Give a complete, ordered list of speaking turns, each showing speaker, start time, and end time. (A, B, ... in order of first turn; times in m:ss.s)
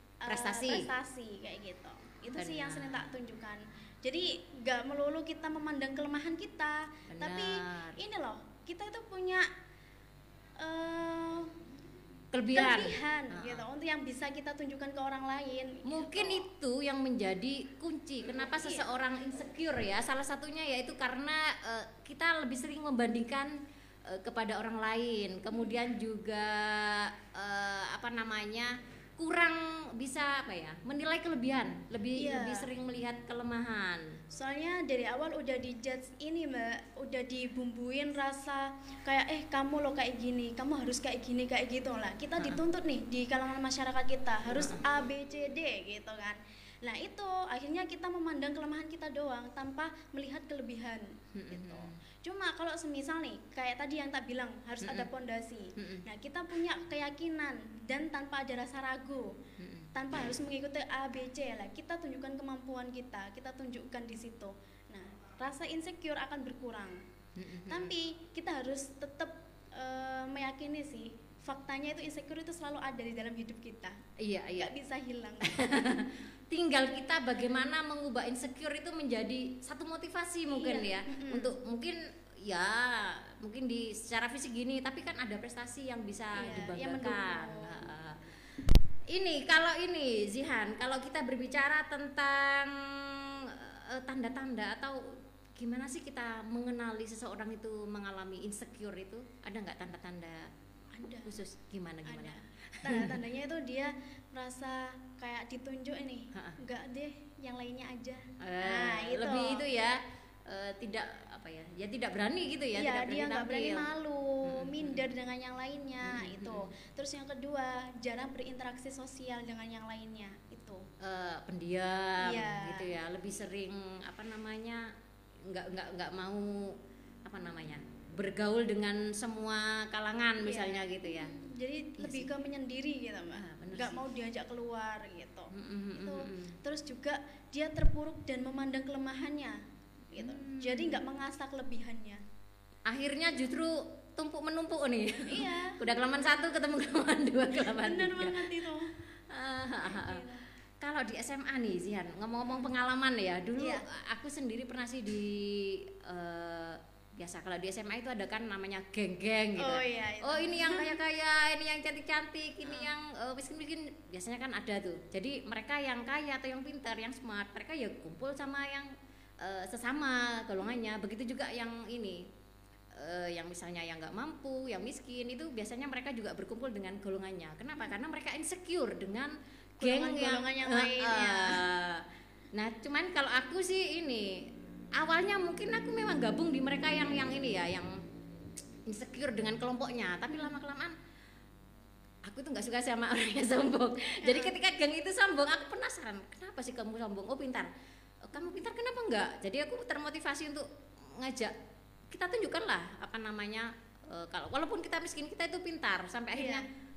0:00.2-0:09.5 A
0:00.3-0:00.9 B
0:02.3-0:03.1 B
0:07.1-0:08.0 B
0:10.6-0:11.5 A
0:12.3-0:13.6 B
0:12.5-0:16.5 A
0:15.9-0:23.6 B
0:24.1-0:34.0 B
0:32.2-0:32.7 A
0:34.3-0:59.3 A
0:44.5-0:44.8 B
0:51.3-0:52.0 B
0:54.8-0:55.1 B
0:55.8-0:56.0 B
0:59.6-0:59.9 B
1:00.0-1:07.0 A
1:07.4-1:07.9 B
1:07.7-1:14.0 A
1:14.2-1:14.7 B
1:14.6-1:15.8 A
1:15.4-1:28.2 B
1:20.5-1:21.5 A
1:26.4-1:27.8 A
1:29.1-1:40.5 B
1:40.9-1:41.4 A
1:41.3-1:43.2 B
1:42.1-1:49.6 A
1:48.4-1:53.9 B
1:52.8-2:00.8 A
1:54.4-1:55.1 B
1:56.0-1:56.7 B
2:01.0-2:04.9 B
2:02.2-2:02.9 A
2:05.5-2:11.3 B
2:10.4-2:19.6 A
2:12.0-2:12.3 B
2:13.4-2:14.0 B
2:15.5-2:16.6 B
2:20.1-2:21.0 B
2:20.1-2:22.2 A
2:22.9-2:28.5 B
2:25.2-2:25.8 A
2:27.6-2:28.9 A
2:29.3-2:30.2 B
2:29.8-2:30.4 A
2:30.8-2:52.2 B
2:33.6-2:33.8 A
2:39.6-2:41.0 A
2:52.9-3:04.3 B
2:59.8-3:01.6 A
3:05.0-3:08.0 B
3:08.9-3:11.0 B
3:12.3-3:17.7 B
3:14.2-3:14.6 A
3:18.2-3:21.5 B
3:22.1-3:26.6 B
3:26.3-3:26.6 A